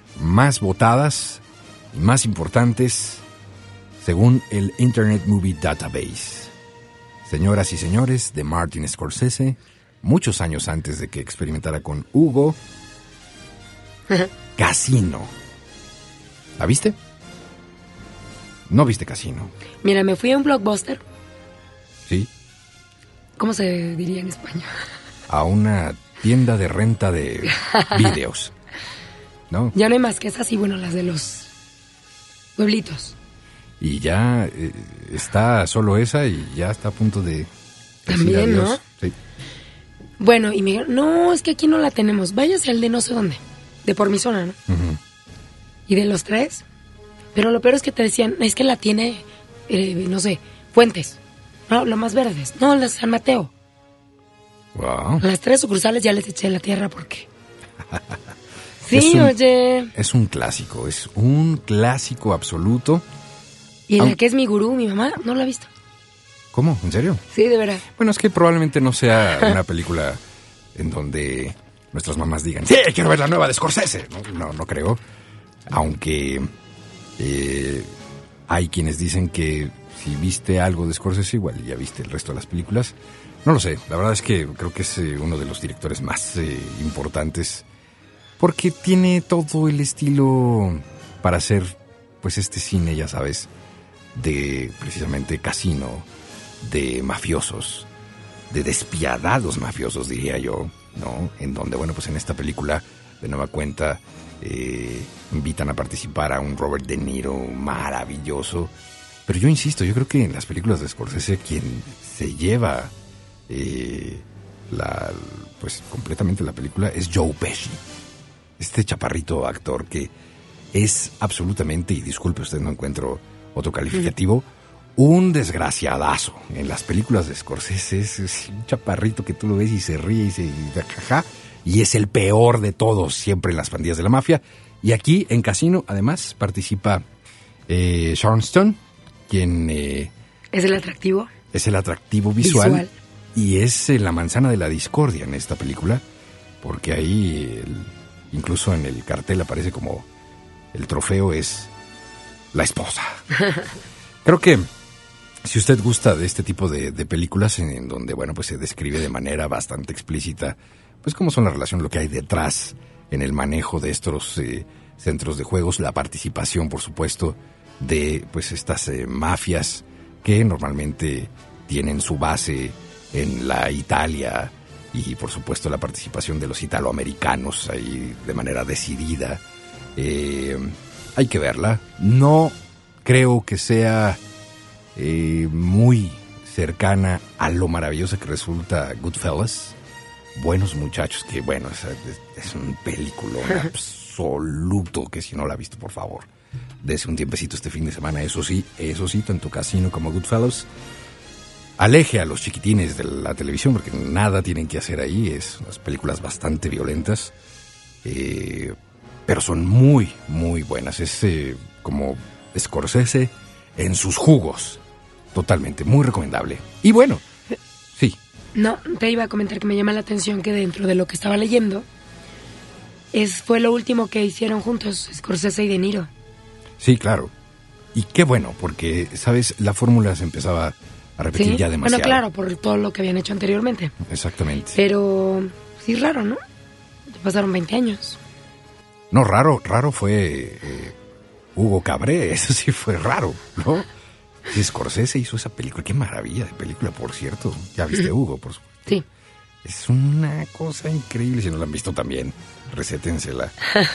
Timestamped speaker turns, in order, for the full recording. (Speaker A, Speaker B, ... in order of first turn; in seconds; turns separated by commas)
Speaker A: 0.2-3.2, Speaker A: 4.0-6.5, Speaker A: 7.2-12.6, Speaker A: 14.6-15.3, Speaker A: 16.6-17.0, Speaker A: 18.7-19.5, Speaker B: 19.8-21.0, Speaker B: 23.4-24.7, Speaker A: 25.3-28.5, Speaker B: 29.7-31.5, Speaker B: 32.6-33.1, Speaker A: 33.8-37.5, Speaker A: 38.0-39.1, Speaker B: 38.1-38.8, Speaker B: 40.2-44.6, Speaker A: 44.7-45.0, Speaker B: 45.9-46.6, Speaker B: 47.4-51.2, Speaker B: 51.7-53.5, Speaker A: 54.7-55.2, Speaker B: 55.2-57.3, Speaker A: 57.9-58.2, Speaker B: 58.8-59.9, Speaker A: 58.9-59.4, Speaker A: 60.0-63.0, Speaker B: 63.9-65.7, Speaker A: 66.5-67.2, Speaker B: 67.3-67.8, Speaker A: 67.9-70.2, Speaker A: 70.8-75.0, Speaker A: 75.7-76.5, Speaker A: 77.2-77.9, Speaker A: 78.5-87.7, Speaker A: 88.4-93.5, Speaker A: 94.1-96.1, Speaker A: 96.6-97.9, Speaker A: 98.5-108.7, Speaker A: 109.3-112.9, Speaker A: 113.5-117.8, Speaker A: 118.6-120.1, Speaker A: 120.7-137.1, Speaker A: 137.7-140.1, Speaker B: 140.5-141.3, Speaker A: 141.5-146.0, Speaker B: 142.4-142.9, Speaker A: 146.6-150.1, Speaker A: 150.7-151.7, Speaker A: 152.5-153.2, Speaker A: 154.2-154.7, Speaker A: 155.4-179.4, Speaker A: 180.0-184.2, Speaker A: 185.0-189.8, Speaker A: 190.3-196.3, Speaker A: 196.8-200.7, Speaker A: 201.8-207.3, Speaker A: 208.0-214.8, Speaker A: 215.3-217.2, Speaker B: 218.6-221.9, Speaker B: 223.1-226.1, Speaker A: 226.8-227.3, Speaker A: 227.9-232.2, Speaker B: 231.4-233.9, Speaker A: 234.0-234.8, Speaker B: 234.8-236.4, Speaker B: 237.1-238.2, Speaker A: 239.1-241.0, Speaker A: 241.6-243.9, Speaker A: 244.5-248.8, Speaker A: 249.6-253.5